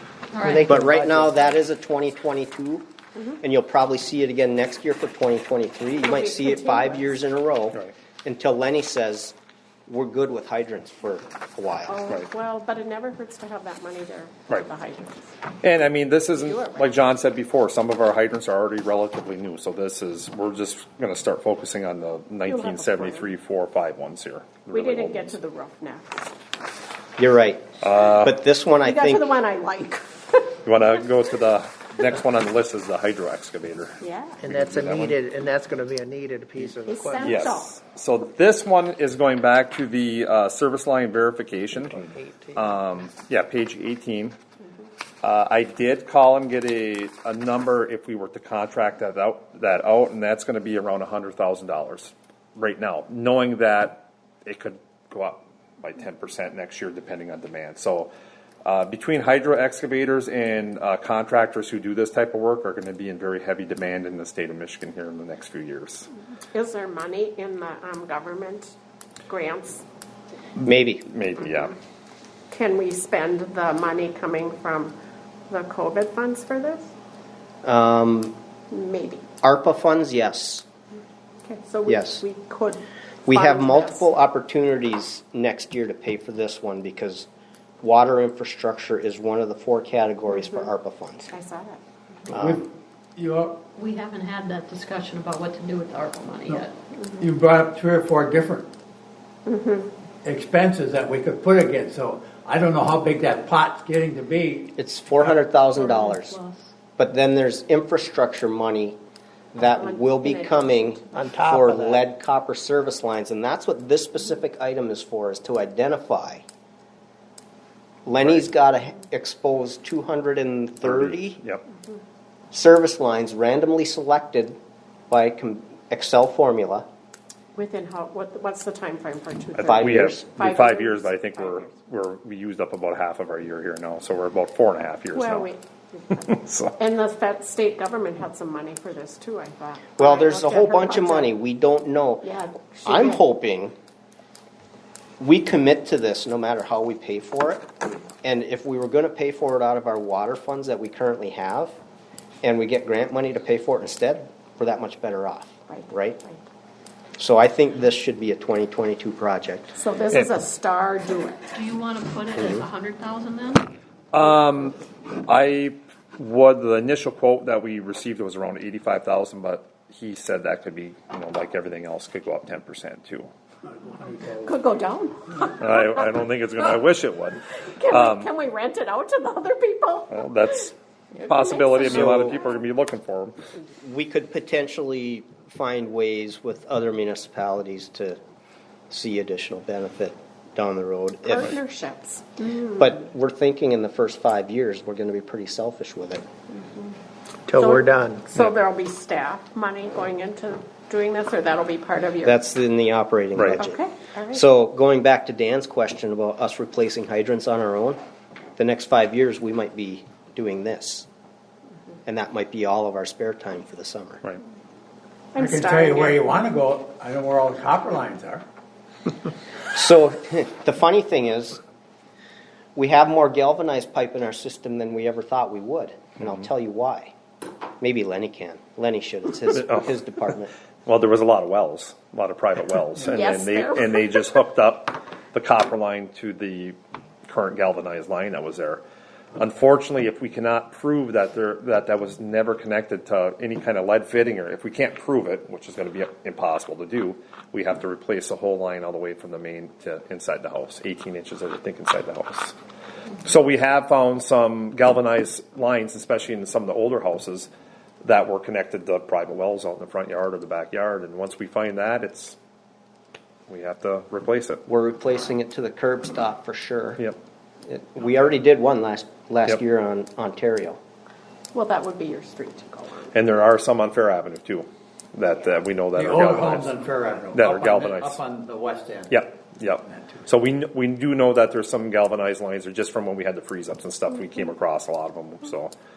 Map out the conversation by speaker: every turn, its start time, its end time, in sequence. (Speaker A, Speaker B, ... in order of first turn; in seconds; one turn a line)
Speaker A: 0.3-0.7
Speaker B: 0.5-1.4
Speaker C: 0.5-2.9
Speaker C: 3.4-9.3
Speaker D: 6.0-7.1
Speaker C: 9.9-12.0
Speaker D: 11.9-15.3
Speaker E: 15.6-25.3
Speaker D: 16.3-17.0
Speaker D: 22.4-23.3
Speaker D: 24.7-26.3
Speaker C: 27.2-29.3
Speaker E: 27.8-28.4
Speaker D: 28.8-30.5
Speaker E: 30.6-35.2
Speaker D: 34.0-34.4
Speaker F: 34.4-37.4
Speaker D: 36.9-37.8
Speaker E: 37.2-44.4
Speaker F: 42.0-42.6
Speaker E: 45.2-58.1
Speaker E: 58.6-66.1
Speaker D: 66.5-68.7
Speaker D: 69.3-69.8
Speaker E: 70.6-71.7
Speaker C: 70.6-71.1
Speaker D: 72.5-75.0
Speaker D: 75.5-76.9
Speaker C: 77.6-78.3
Speaker D: 78.7-79.2
Speaker C: 79.4-80.7
Speaker D: 81.5-84.1
Speaker C: 81.9-82.2
Speaker C: 83.3-87.3
Speaker C: 87.8-91.3
Speaker D: 90.4-90.7
Speaker D: 91.2-91.8
Speaker B: 92.3-93.6
Speaker C: 92.3-92.6
Speaker A: 93.8-96.7
Speaker D: 97.0-97.2
Speaker B: 97.2-98.7
Speaker D: 99.5-99.9
Speaker B: 100.2-105.3
Speaker C: 104.8-106.4
Speaker A: 105.7-106.7
Speaker C: 107.0-109.0
Speaker C: 109.5-116.4
Speaker D: 109.6-111.2
Speaker F: 111.1-112.0
Speaker B: 111.3-111.6
Speaker C: 118.1-121.4
Speaker E: 120.8-121.6
Speaker C: 122.5-124.6
Speaker C: 125.1-126.9
Speaker D: 127.5-131.7
Speaker E: 129.6-135.5
Speaker C: 129.7-130.2
Speaker D: 135.1-141.4
Speaker E: 136.1-136.7
Speaker C: 140.0-142.3
Speaker D: 142.2-143.2
Speaker C: 142.8-143.7
Speaker C: 145.2-147.7
Speaker C: 148.2-151.7
Speaker C: 152.4-156.2
Speaker D: 155.7-156.4
Speaker C: 157.2-159.8
Speaker D: 159.7-161.5
Speaker A: 161.5-163.7
Speaker E: 164.1-173.3
Speaker B: 173.7-174.5
Speaker D: 174.4-175.9
Speaker E: 175.6-178.3
Speaker D: 177.8-182.3
Speaker E: 180.1-180.7
Speaker E: 181.3-183.3
Speaker C: 181.9-182.4
Speaker C: 183.8-188.2
Speaker C: 188.9-191.5
Speaker D: 191.2-192.8
Speaker C: 192.8-196.2
Speaker B: 197.5-198.2
Speaker D: 197.5-202.4
Speaker C: 202.2-203.8
Speaker E: 203.4-203.7
Speaker D: 203.6-204.4
Speaker C: 204.3-208.0
Speaker C: 208.6-211.1
Speaker C: 212.1-214.2
Speaker D: 215.3-216.2
Speaker B: 215.4-218.4
Speaker C: 219.7-221.6
Speaker C: 222.8-227.1
Speaker C: 227.8-230.5
Speaker E: 229.6-229.9
Speaker E: 230.9-238.8
Speaker D: 233.0-234.3
Speaker E: 239.4-252.6
Speaker E: 253.2-257.5
Speaker E: 258.0-262.4
Speaker E: 263.5-264.6
Speaker C: 264.7-267.0
Speaker C: 267.7-270.8
Speaker D: 271.5-273.1
Speaker E: 273.1-276.8
Speaker B: 275.9-279.2
Speaker E: 277.3-278.2
Speaker E: 279.1-285.7